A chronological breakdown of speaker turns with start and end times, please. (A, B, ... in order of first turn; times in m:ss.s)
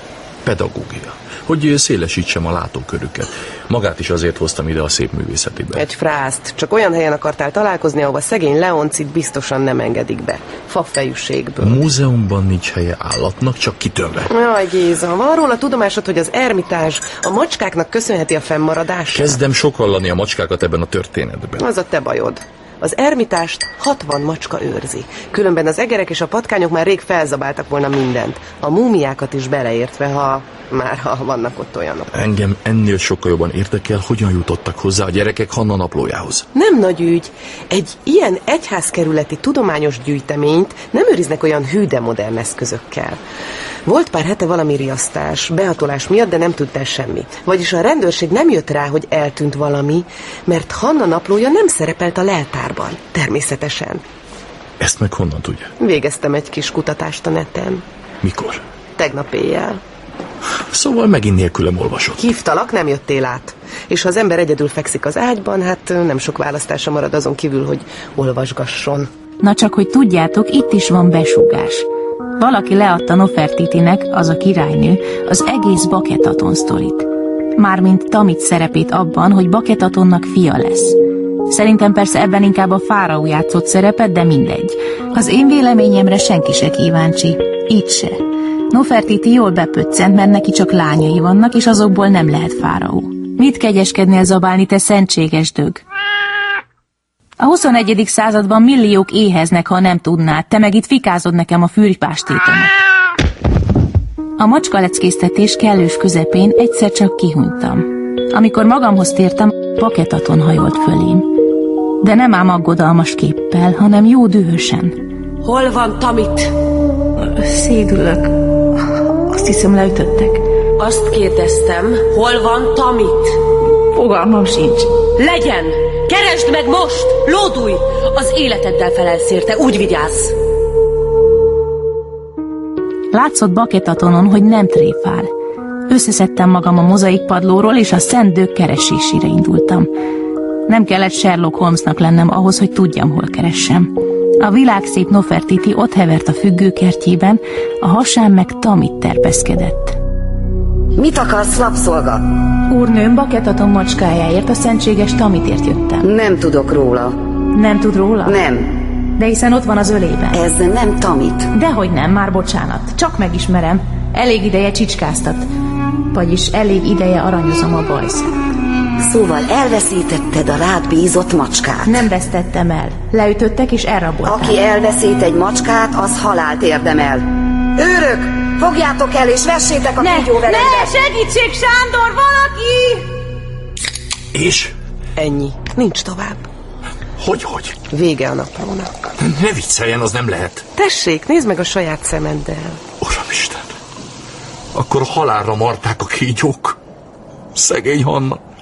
0:00.4-0:05.8 A
0:05.7-0:11.8 B
0:11.6-0:14.3 A
0:14.3-0:19.4 B
0:19.1-0:21.6 A
0:21.6-0:32.1 B
0:32.1-0:36.4 A
0:36.5-0:43.2 B
0:43.8-0:54.0 B
0:54.8-0:55.7 A
0:55.8-0:57.8 B
0:58.2-0:58.6 A
0:59.0-0:59.8 B
1:00.7-1:02.2 A
1:02.2-1:09.1 B
1:09.4-1:11.8 C
1:12.4-1:21.0 C
1:21.5-1:35.8 C
1:37.4-1:42.7 C
1:44.4-1:51.3 C
1:52.0-1:55.0 C
1:57.2-1:58.3 C
1:59.3-2:00.4 C
2:04.0-2:04.9 C
2:13.1-2:15.3 C
2:15.9-2:19.9 C
2:20.7-2:30.0 C
2:31.0-2:32.2 D
2:32.7-2:36.0 C
2:36.0-2:37.1 D
2:37.5-2:38.4 C
2:38.2-2:38.6 D
2:39.2-2:40.4 C
2:40.3-2:41.5 D
2:41.5-2:45.5 C
2:46.1-2:48.3 C
2:49.0-2:52.0 D
2:51.8-2:54.6 C
2:54.2-2:57.2 D
2:57.8-3:00.9 D
3:00.0-3:03.0 E
3:04.3-3:04.7 A
3:05.2-3:06.4 B
3:07.2-3:07.7 A
3:07.9-3:08.9 B
3:09.2-3:10.6 A
3:10.7-3:12.8 B
3:13.0-3:13.7 A
3:14.7-3:16.8 A
3:17.5-3:18.4 A